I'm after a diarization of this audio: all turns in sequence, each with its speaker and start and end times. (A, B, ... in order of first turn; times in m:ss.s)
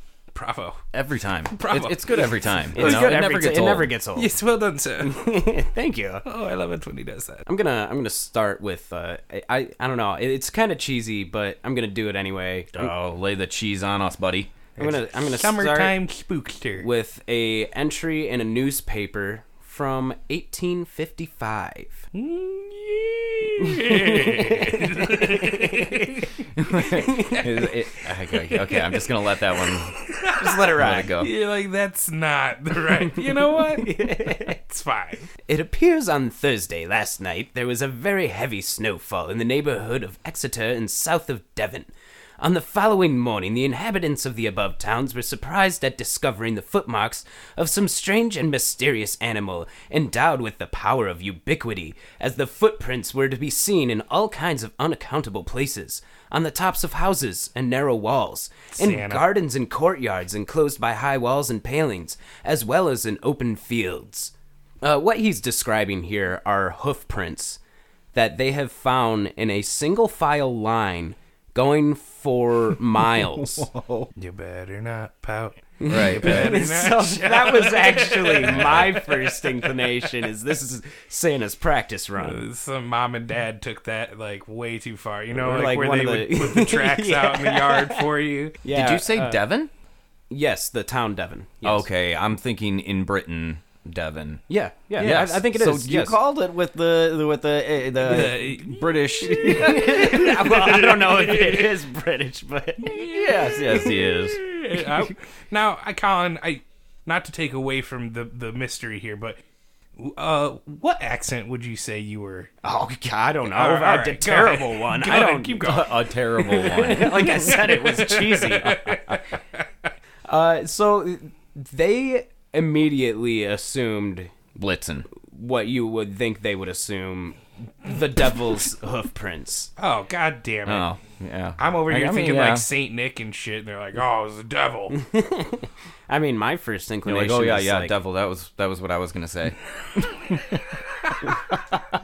0:00.3-0:00.8 A
0:00.9-0:03.9 B
0:01.5-0:03.2 A
0:02.7-0:04.3 C
0:04.2-0:05.2 A
0:05.0-0:06.2 C
0:06.2-0:07.4 A
0:07.4-0:12.9 C
0:12.7-0:14.6 B
0:14.8-0:16.0 C
0:14.8-0:16.9 A
0:16.8-0:22.0 C
0:22.1-0:26.4 A
0:23.6-0:26.2 C
0:26.5-0:29.9 B
0:27.0-0:27.4 C
0:27.3-0:27.7 A
0:28.3-0:35.3 A
0:30.3-0:31.2 C
0:30.7-0:31.3 B
0:32.8-0:34.6 C
0:35.4-1:07.6 C
0:58.8-0:59.2 A
1:08.1-1:13.7 C
1:13.4-1:14.1 B
1:14.2-1:20.1 A
1:15.8-1:22.4 C
1:15.8-1:16.6 B
1:18.6-1:18.8 B
1:22.2-1:28.6 A
1:25.3-1:28.1 C
1:28.6-1:29.4 C
1:28.7-1:29.7 B
1:30.3-1:31.9 C
1:31.6-1:34.4 B
1:34.5-1:36.2 C
1:35.0-1:40.3 B
1:38.0-1:41.7 A
1:39.3-1:43.1 C
1:42.8-1:44.4 B
1:42.9-1:49.4 A
1:43.7-1:43.9 C
1:50.0-1:52.5 A
1:52.6-1:59.2 C
1:53.5-1:56.0 A
1:55.7-1:57.5 B
1:57.1-1:59.2 A
2:00.2-2:04.3 C
2:04.6-2:05.1 B
2:05.1-2:09.7 C
2:09.8-2:10.8 A
2:10.6-2:12.7 B
2:11.6-2:15.0 A
2:14.9-2:18.0 C
2:17.0-2:21.5 B